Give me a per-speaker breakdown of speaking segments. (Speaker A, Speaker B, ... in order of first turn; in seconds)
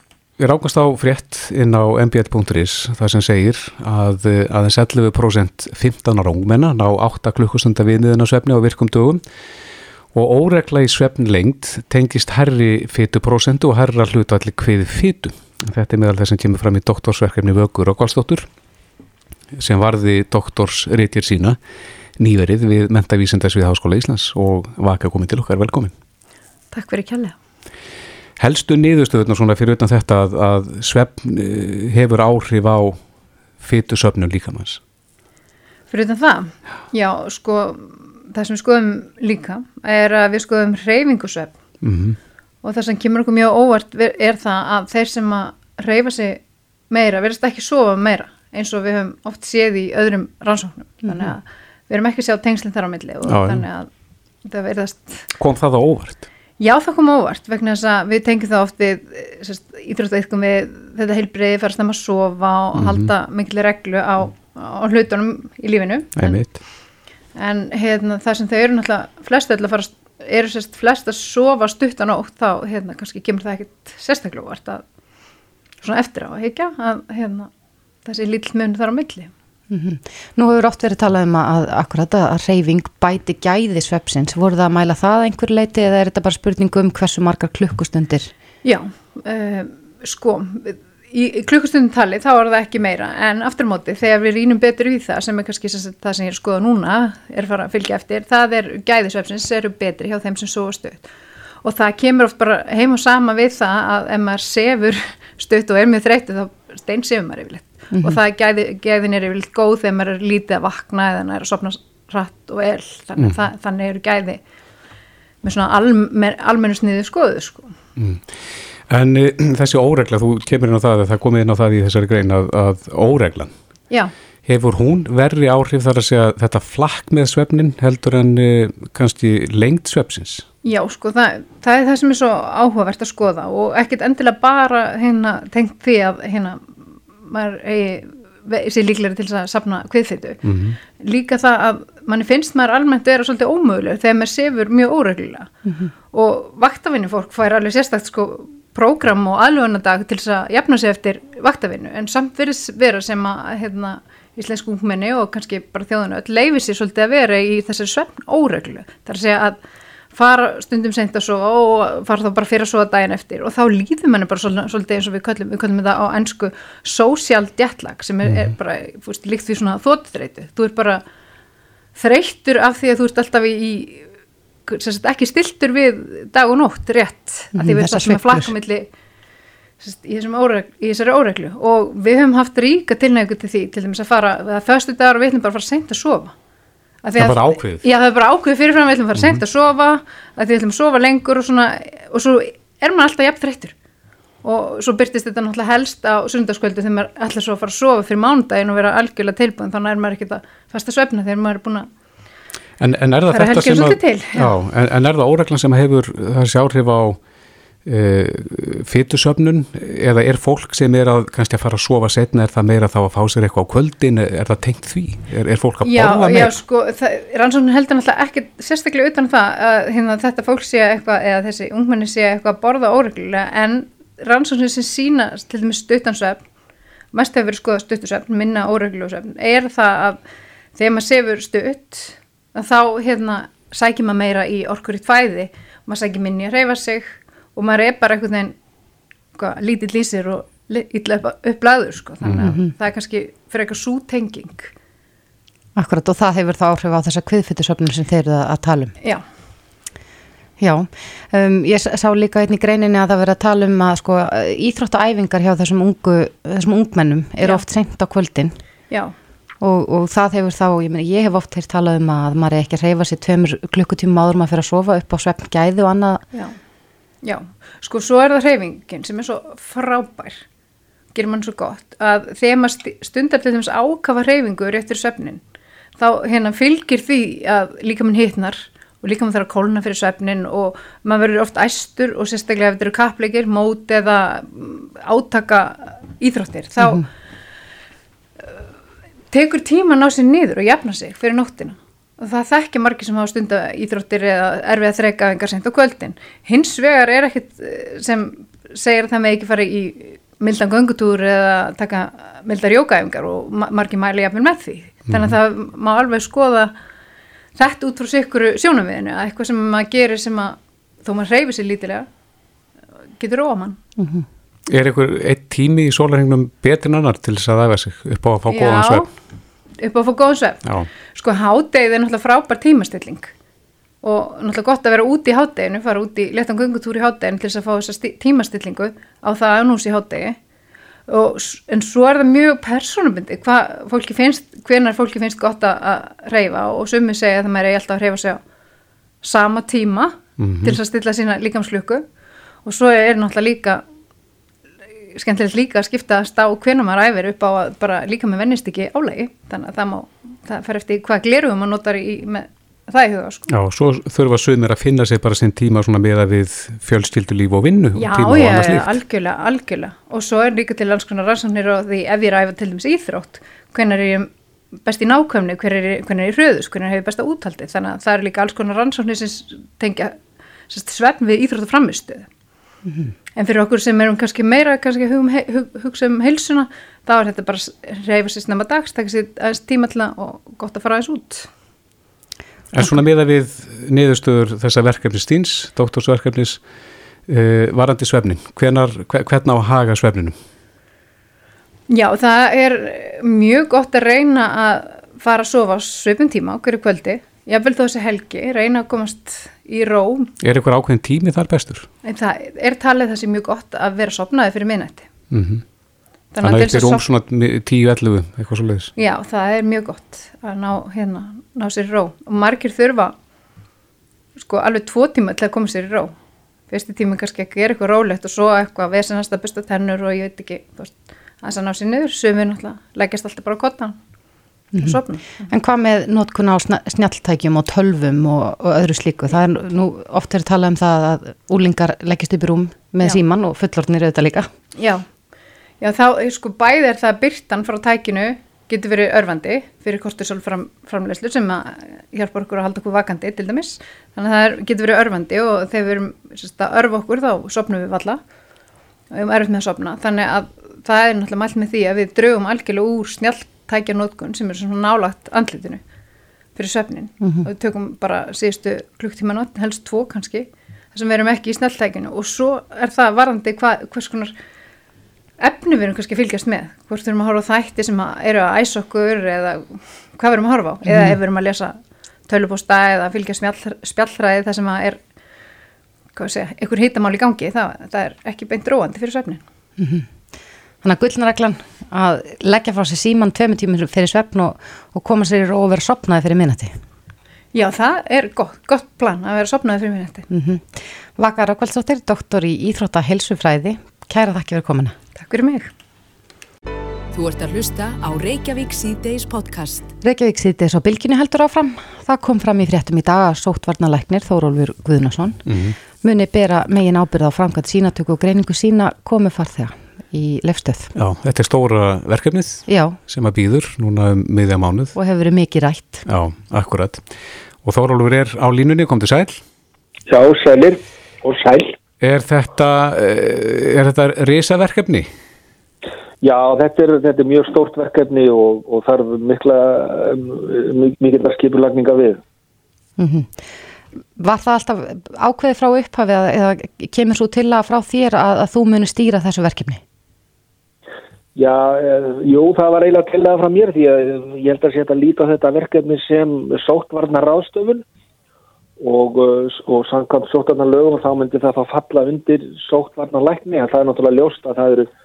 Speaker A: 0.4-9.2, 10.1-18.5, 19.5-21.6, 22.2-25.9, 28.4-33.0, 33.6-34.8, 41.8-42.2, 53.3-53.6, 55.4-56.2, 62.8-63.1, 66.2-66.5, 118.0-118.3, 118.9-123.5, 124.5-130.4, 140.4-140.8, 168.2-168.5, 187.2-187.8, 189.1-189.4, 202.8-207.2, 207.8-216.6, 305.1-305.3, 314.7-319.1, 340.4-340.8, 353.5-359.0, 382.7-386.6, 387.3-390.4, 400.4-401.9, 405.3-405.6, 406.4-408.9, 505.4-505.8, 510.9-514.9, 516.0-517.1, 517.6-519.4, 522.0-525.1
Speaker B: 26.7-27.3, 35.9-41.5, 42.6-53.9, 54.4-55.2, 56.6-66.4, 67.3-74.8, 75.8-77.5, 78.0-79.3, 88.6-101.0, 101.6-114.4, 115.4-117.7, 130.6-136.7, 137.2-140.4, 140.9-145.5, 146.1-159.6, 160.1-171.0, 171.9-174.1, 174.7-178.9, 179.8-186.3, 187.0-193.7, 194.4-201.9, 203.3-204.5, 215.8-226.4, 227.1-230.2, 230.7-238.5, 239.3-244.7, 267.2-270.4, 271.1-275.4, 276.0-287.0, 289.3-306.7, 307.6-312.1, 313.2-313.8, 318.5-319.1, 319.8-323.3, 324.0-330.4, 331.1-338.4, 339.2-342.0, 342.6-343.8, 345.1-353.4, 358.0-364.3, 364.8-370.1, 370.7-372.3, 373.4-381.5, 391.9-400.3, 402.0-405.1, 406.3-407.1, 408.9-413.1, 414.4-416.1, 416.7-423.9, 424.8-425.5, 434.8-435.0, 435.8-448.2, 449.1-455.8, 456.6-464.3, 465.4-471.8, 472.3-475.0, 476.1-479.4, 487.5-490.2, 495.2-495.7
Speaker C: 79.7-88.3, 177.6-178.5, 242.4-242.7, 245.8-248.9, 250.6-258.6, 259.6-266.2, 286.8-287.1, 314.0-314.2, 424.7-434.5, 457.2-457.5, 470.9-471.2, 479.8-480.1, 480.8-486.7, 490.3-494.9, 500.0-505.4, 506.0-510.9, 512.7-513.0, 514.9-516.0, 533.0-533.5, 534.2-539.8
Speaker D: 497.1-499.9
Speaker E: 520.1-521.8, 526.2-532.2, 541.4-547.8, 548.8-554.9